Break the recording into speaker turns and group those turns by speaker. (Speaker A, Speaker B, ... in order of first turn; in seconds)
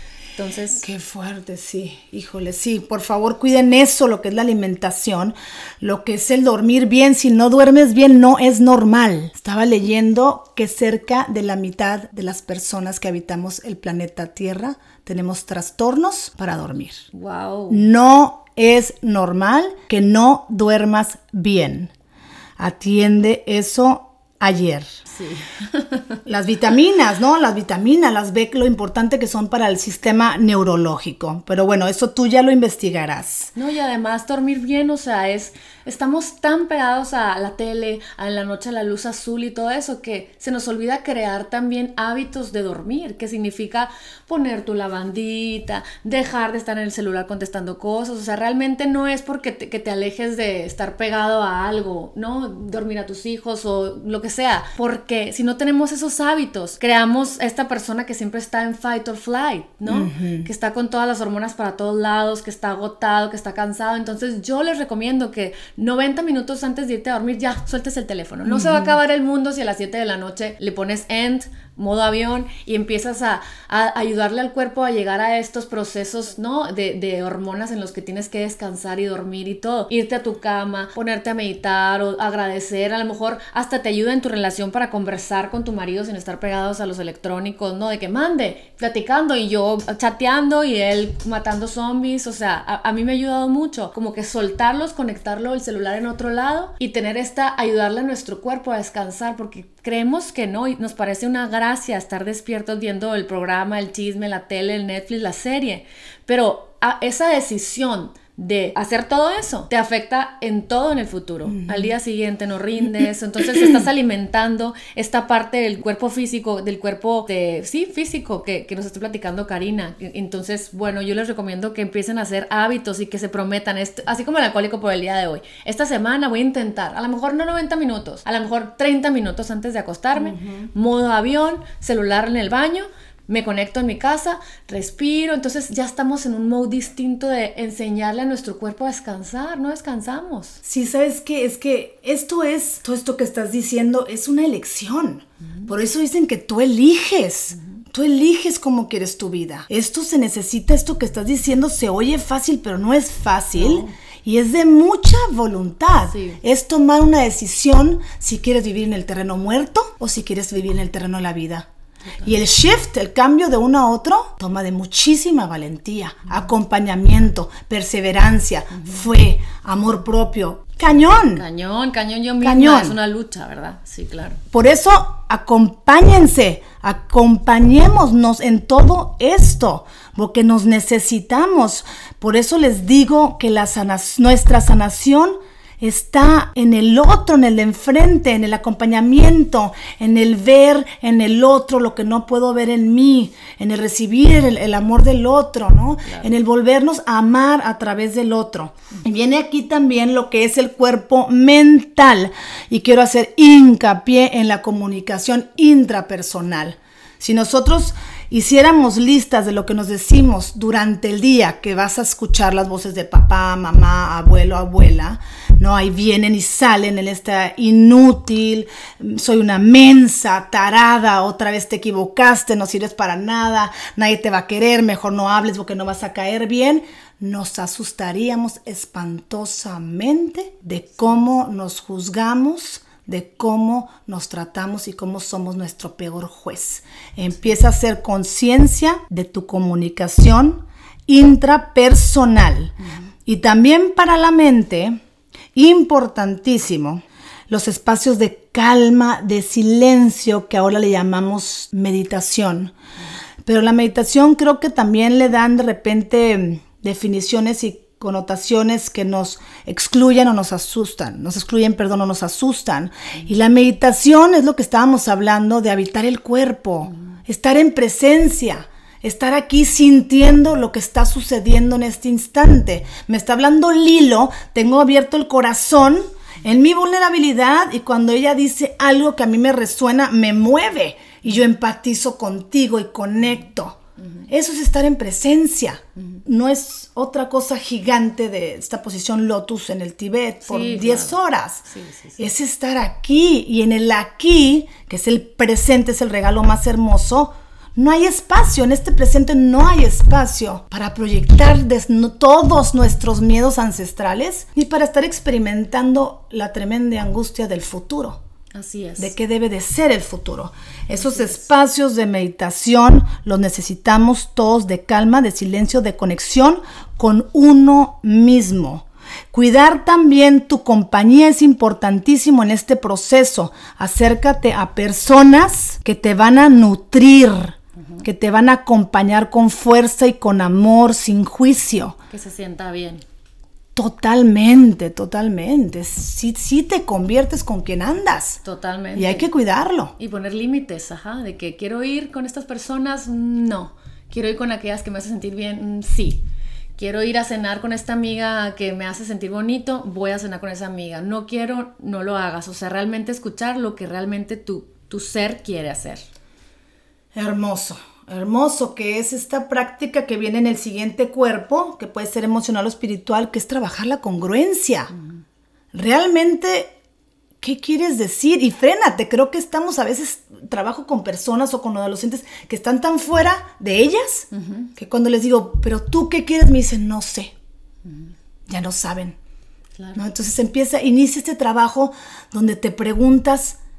Speaker A: 0.3-0.8, 17.1-17.9, 25.1-26.2, 33.5-140.6, 153.6-153.9, 156.1-156.4, 171.3-174.4, 290.4-292.2, 308.6-309.1, 311.0-311.4, 332.1-333.0, 338.4-339.3, 340.0-346.2, 346.8-356.1, 374.3-374.7, 377.9-378.1
Speaker B: 0.8-17.0, 17.7-21.9, 22.6-24.9, 26.3-33.5, 59.9-60.5, 68.5-69.0, 111.5-111.9, 130.2-130.7, 140.6-161.7, 162.2-171.4, 172.4-173.0, 174.5-245.0, 245.5-252.7, 253.4-291.6, 292.2-308.2, 309.0-332.0, 333.8-338.4, 338.9-339.9, 357.1-364.9, 365.7-366.8, 367.4-377.3, 378.5-379.2, 379.9-383.6